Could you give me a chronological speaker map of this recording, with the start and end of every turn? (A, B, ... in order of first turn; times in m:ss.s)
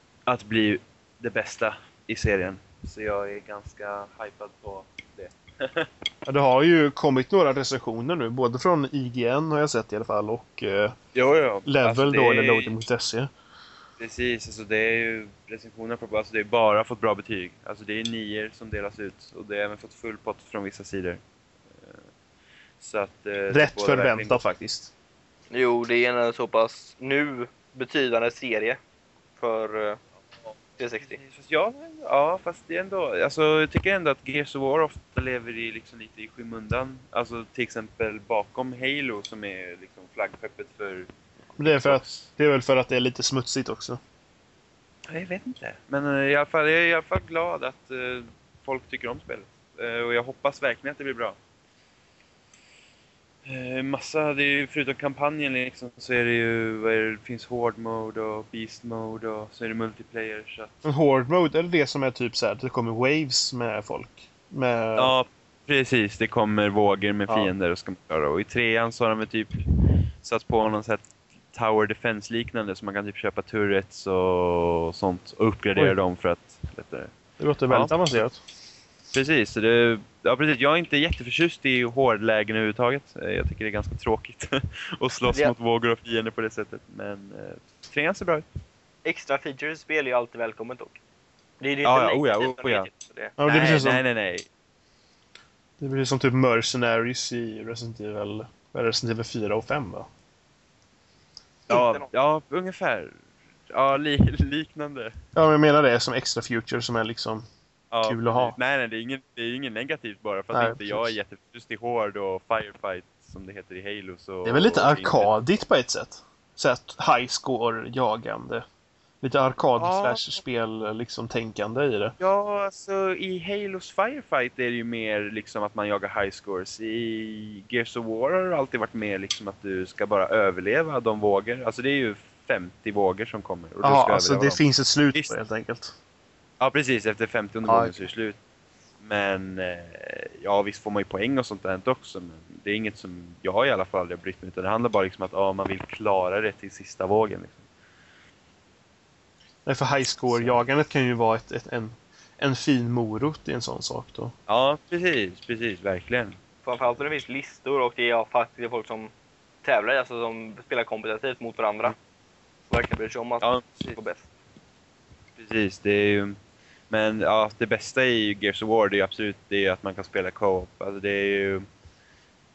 0:00.3-0:05.9 A
0:06.2-0:11.0 B
0:11.1-0:12.7 A
0:11.6-0:13.3 B
0:14.0-0:22.1 A
0:22.8-0:24.4 A
0:23.5-0:24.9 B
0:25.5-0:28.8 C
0:29.4-0:30.0 C
0:30.4-0:41.1 A
0:30.8-0:31.2 C
0:41.6-0:44.0 B
0:41.6-0:42.2 A
0:45.1-0:51.4 A
0:53.4-1:00.8 A
1:00.8-1:05.1 B
1:05.0-1:09.6 A
1:10.2-1:17.1 A
1:17.4-1:18.4 B
1:17.7-1:18.0 A
1:19.1-1:28.4 A
1:29.0-1:31.0 C
1:31.6-1:33.3 C
1:31.8-1:34.5 A
1:33.4-1:34.0 B
1:35.8-1:40.1 B
1:41.7-1:45.2 A
1:41.7-1:42.1 C
1:45.3-1:47.4 B
1:47.9-1:55.3 A
1:48.0-1:48.6 B
1:50.5-1:51.2 B
1:54.4-1:58.6 B
1:59.2-2:02.1 B
1:59.8-2:00.4 A
2:02.2-2:14.6 A
2:13.8-2:15.9 B
2:16.6-2:18.4 A
2:17.6-2:18.1 B
2:19.0-2:27.6 A
2:29.6-2:34.3 B
2:30.2-2:30.6 A
2:34.5-2:36.4 A
2:36.6-2:39.1 C
2:39.6-2:41.9 C
2:42.7-2:44.3 C
2:43.4-2:44.0 A
2:45.4-2:46.4 A
2:46.9-2:51.6 A